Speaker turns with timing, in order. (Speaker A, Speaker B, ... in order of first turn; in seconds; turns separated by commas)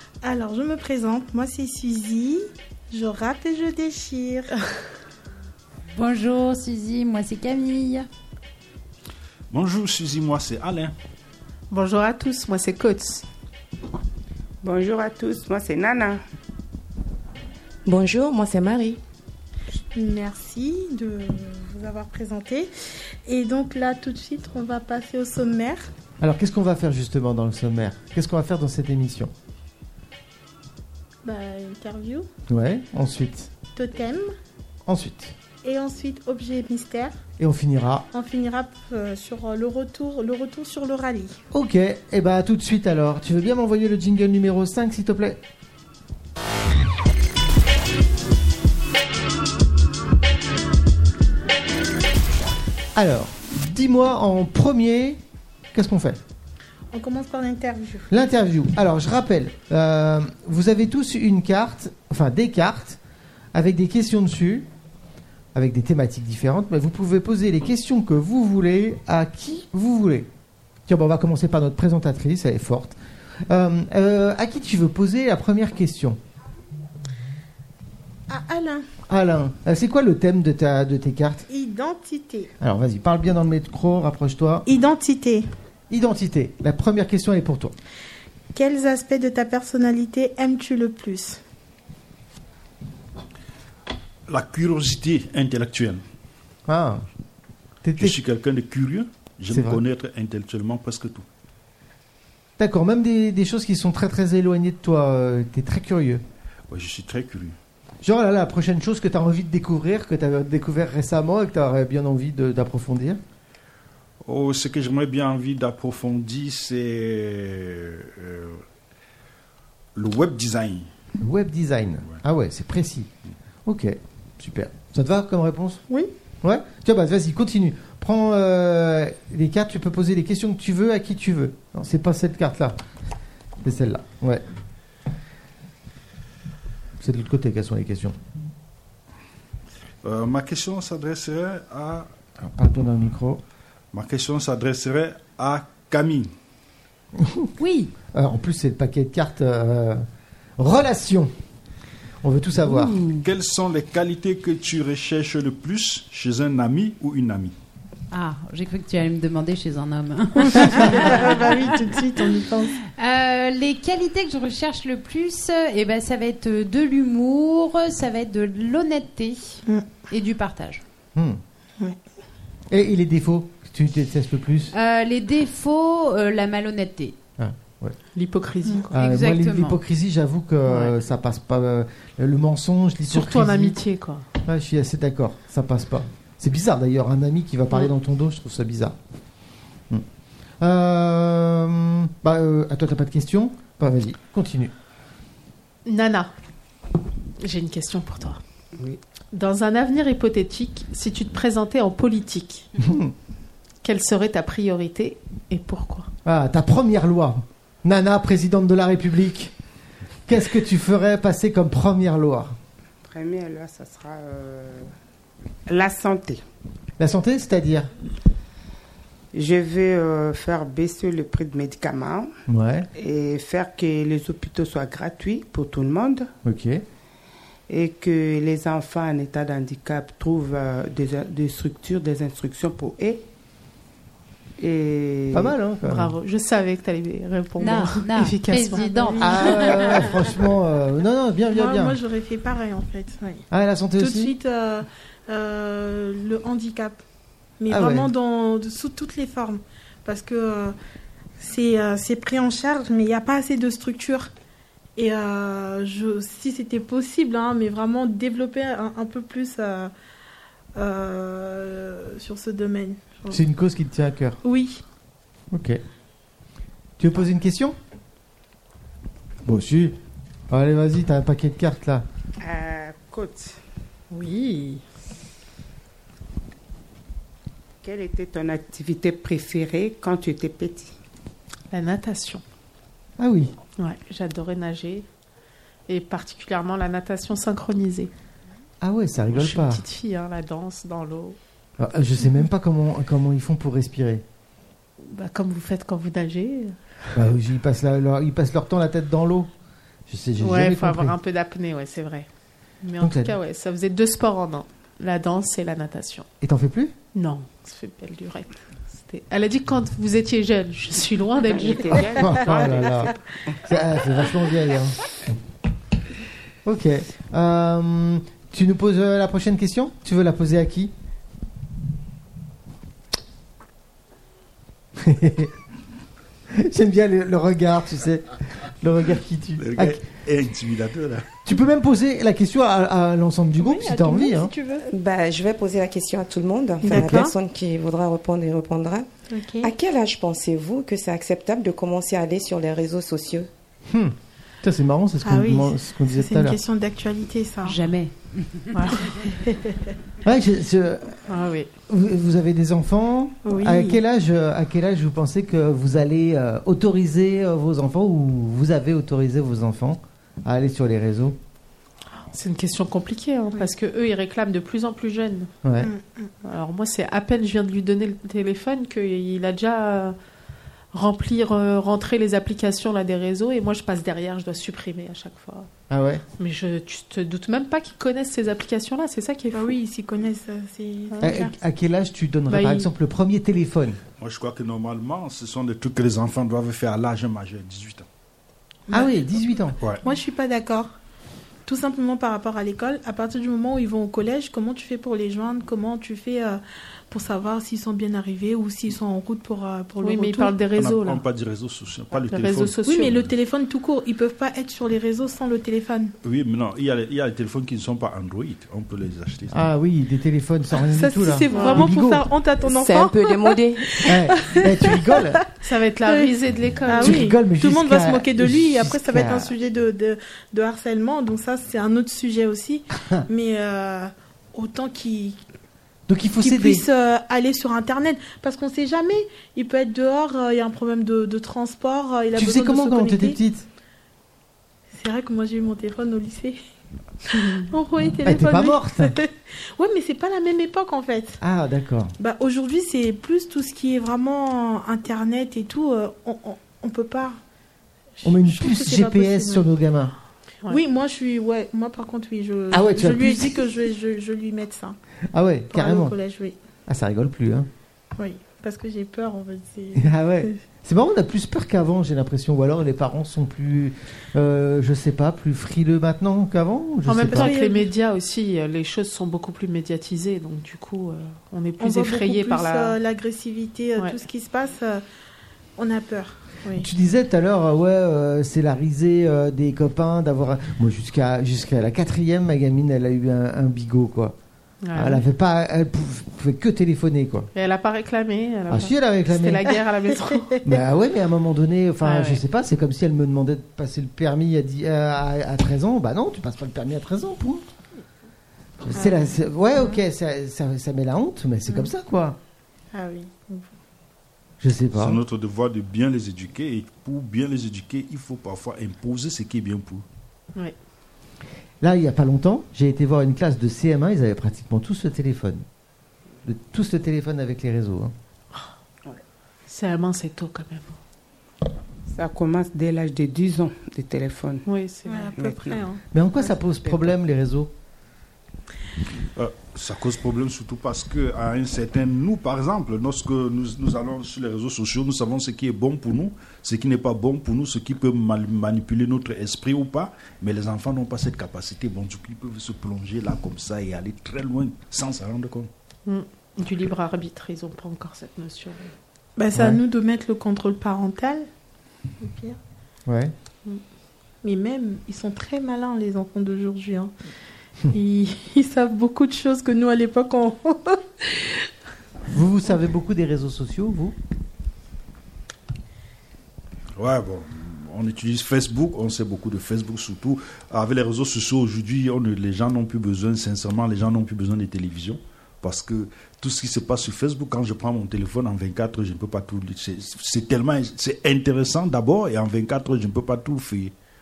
Speaker A: 0.2-4.5, Speaker B: 5.9-8.1, Speaker C: 9.5-10.9, Speaker D: 11.7-13.3, Speaker E: 14.6-16.2, Speaker F: 17.9-19.0, Speaker A: 19.9-22.7, Speaker A: 23.3-25.9, Speaker G: 26.2-29.3, Speaker A: 31.2-32.3, Speaker G: 32.5-33.5, Speaker A: 33.7-34.3, Speaker G: 34.9-35.4, Speaker A: 35.6-37.2, Speaker G: 37.4-38.1, Speaker A: 38.1-41.4, Speaker G: 41.5-45.4, Speaker G: 53.0-55.2, Speaker G: 55.7-56.2, Speaker A: 56.9-58.1, Speaker G: 58.1-63.0, Speaker G: 63.5-64.7, Speaker G: 65.5-70.3, Speaker G: 70.9-73.0, Speaker G: 73.5-76.2, Speaker A: 78.3-78.9, Speaker G: 79.1-81.5, Speaker A: 81.5-82.5, Speaker G: 82.6-84.7, Speaker A: 84.7-85.5, Speaker G: 85.9-87.8, Speaker A: 88.5-91.4, Speaker C: 94.3-96.0, Speaker G: 96.7-97.0, Speaker G: 97.8-98.2, Speaker C: 98.0-101.2, Speaker G: 99.5-99.8, Speaker G: 102.6-106.2, Speaker C: 106.7-107.6, Speaker G: 108.0-113.2, Speaker C: 114.2-118.6, Speaker C: 120.0-120.9, Speaker G: 121.2-123.1, Speaker G: 123.7-125.8, Speaker G: 126.4-132.8, Speaker G: 133.6-134.4, Speaker G: 137.0-138.2, Speaker C: 140.0-142.1, Speaker G: 142.4-143.4, Speaker C: 143.9-146.3, Speaker G: 147.2-147.5, Speaker B: 147.6-147.9, Speaker G: 148.1-150.1, Speaker G: 150.6-151.3, Speaker G: 152.2-153.0, Speaker B: 152.7-153.2, Speaker C: 153.2-157.5, Speaker B: 158.1-161.9, Speaker A: 160.4-162.8, Speaker B: 162.9-170.8, Speaker G: 171.2-171.4, Speaker G: 172.7-174.7, Speaker B: 174.7-177.2, Speaker G: 177.4-178.0, Speaker D: 178.2-178.9, Speaker B: 178.9-179.8, Speaker G: 178.9-183.8, Speaker D: 180.7-180.9, Speaker D: 183.1-184.3, Speaker G: 184.4-189.0, Speaker G: 190.6-194.7, Speaker D: 195.9-196.3, Speaker D: 197.4-198.4, Speaker D: 199.3-202.7, Speaker G: 202.8-203.1, Speaker D: 203.8-206.1, Speaker G: 206.2-209.5, Speaker G: 210.3-212.6, Speaker E: 213.0-214.9, Speaker E: 215.7-216.4, Speaker G: 217.0-217.9, Speaker E: 219.3-222.3, Speaker G: 222.5-222.9, Speaker E: 223.0-226.3, Speaker G: 226.4-226.8, Speaker E: 227.7-233.3, Speaker E: 234.6-235.5, Speaker G: 235.3-236.1, Speaker D: 235.9-239.7, Speaker B: 237.6-240.2, Speaker G: 239.2-242.0, Speaker A: 241.5-243.4, Speaker G: 243.5-244.3, Speaker A: 244.0-247.0, Speaker A: 247.6-250.8, Speaker G: 247.7-248.1, Speaker A: 251.4-254.3, Speaker A: 255.0-259.9, Speaker A: 260.8-263.4, Speaker G: 263.3-264.4, Speaker A: 264.4-264.8, Speaker G: 265.5-265.8, Speaker G: 267.0-267.8, Speaker G: 269.4-270.0, Speaker G: 270.5-272.1, Speaker E: 272.4-273.6, Speaker D: 274.1-274.8, Speaker E: 277.8-280.9, Speaker D: 281.7-282.4, Speaker G: 283.2-283.5, Speaker D: 283.8-285.1, Speaker D: 285.9-288.1, Speaker G: 288.8-289.8, Speaker D: 289.3-291.4, Speaker G: 291.8-294.2, Speaker D: 295.0-296.8, Speaker G: 297.1-299.5, Speaker G: 300.1-301.1, Speaker D: 300.4-302.3, Speaker D: 302.8-306.3, Speaker G: 303.0-303.3, Speaker G: 306.4-306.9, Speaker D: 307.1-312.1, Speaker E: 311.5-313.2, Speaker G: 312.1-315.0, Speaker G: 316.6-320.9, Speaker G: 325.0-325.6, Speaker G: 326.5-330.0, Speaker C: 329.6-331.4, Speaker G: 331.4-334.5, Speaker A: 333.6-334.9, Speaker F: 334.9-339.1, Speaker A: 336.8-337.3, Speaker G: 336.9-337.3, Speaker A: 339.3-339.7, Speaker F: 339.6-343.5, Speaker G: 343.9-346.6, Speaker A: 345.2-347.8, Speaker B: 347.6-349.1, Speaker A: 348.9-349.9, Speaker G: 350.2-351.2, Speaker D: 351.3-351.7, Speaker G: 351.9-361.4, Speaker A: 353.5-354.0, Speaker D: 362.2-365.5, Speaker G: 365.6-365.9, Speaker A: 365.8-366.3, Speaker D: 366.4-370.2, Speaker D: 370.9-375.7, Speaker G: 375.9-376.2, Speaker D: 376.4-379.8, Speaker A: 379.5-381.6, Speaker D: 381.1-381.4, Speaker G: 381.2-384.0, Speaker D: 382.5-382.9, Speaker C: 384.2-388.1, Speaker A: 388.9-389.2, Speaker G: 388.9-389.8, Speaker C: 389.8-390.0, Speaker A: 390.0-390.9, Speaker A: 391.7-400.6, Speaker D: 400.0-401.2, Speaker C: 400.8-403.3, Speaker D: 402.3-403.1, Speaker A: 402.9-406.1, Speaker C: 406.2-409.6, Speaker G: 409.5-412.3, Speaker A: 410.8-415.3, Speaker D: 411.5-411.9, Speaker F: 412.6-414.1, Speaker G: 414.0-415.4, Speaker D: 415.6-417.3, Speaker A: 416.1-416.3, Speaker A: 416.9-425.4, Speaker G: 416.9-419.6, Speaker G: 426.1-426.9, Speaker A: 426.4-433.4, Speaker G: 432.3-433.7, Speaker A: 434.9-436.6, Speaker A: 437.2-441.4, Speaker G: 438.2-439.2, Speaker G: 441.4-442.1, Speaker A: 442.2-447.4, Speaker A: 448.2-449.7, Speaker G: 448.2-450.1, Speaker A: 450.7-455.0, Speaker G: 452.7-453.6, Speaker G: 455.3-456.1, Speaker A: 455.7-456.6, Speaker G: 456.9-457.7, Speaker A: 458.2-460.5, Speaker G: 459.9-467.5, Speaker D: 467.1-473.0, Speaker A: 467.3-467.9, Speaker A: 471.8-475.0, Speaker A: 475.8-476.9, Speaker G: 476.8-484.4, Speaker D: 484.8-485.2, Speaker G: 484.9-487.5, Speaker D: 487.6-490.6, Speaker G: 488.7-489.7, Speaker G: 490.6-497.6, Speaker D: 492.0-492.4, Speaker G: 498.8-502.4, Speaker A: 502.9-503.7, Speaker G: 504.6-505.2, Speaker C: 505.0-510.1, Speaker G: 511.8-515.6, Speaker G: 516.5-518.1, Speaker D: 519.7-521.0, Speaker E: 522.1-524.7, Speaker D: 524.7-525.3, Speaker A: 525.1-526.0, Speaker E: 525.4-525.8, Speaker G: 526.1-527.7, Speaker C: 529.4-545.7, Speaker D: 546.1-548.9, Speaker A: 549.4-551.5, Speaker G: 549.5-549.8, Speaker A: 552.2-552.6, Speaker G: 553.1-553.3, Speaker A: 554.4-557.1, Speaker A: 557.9-561.7, Speaker G: 562.3-564.2, Speaker C: 567.0-584.0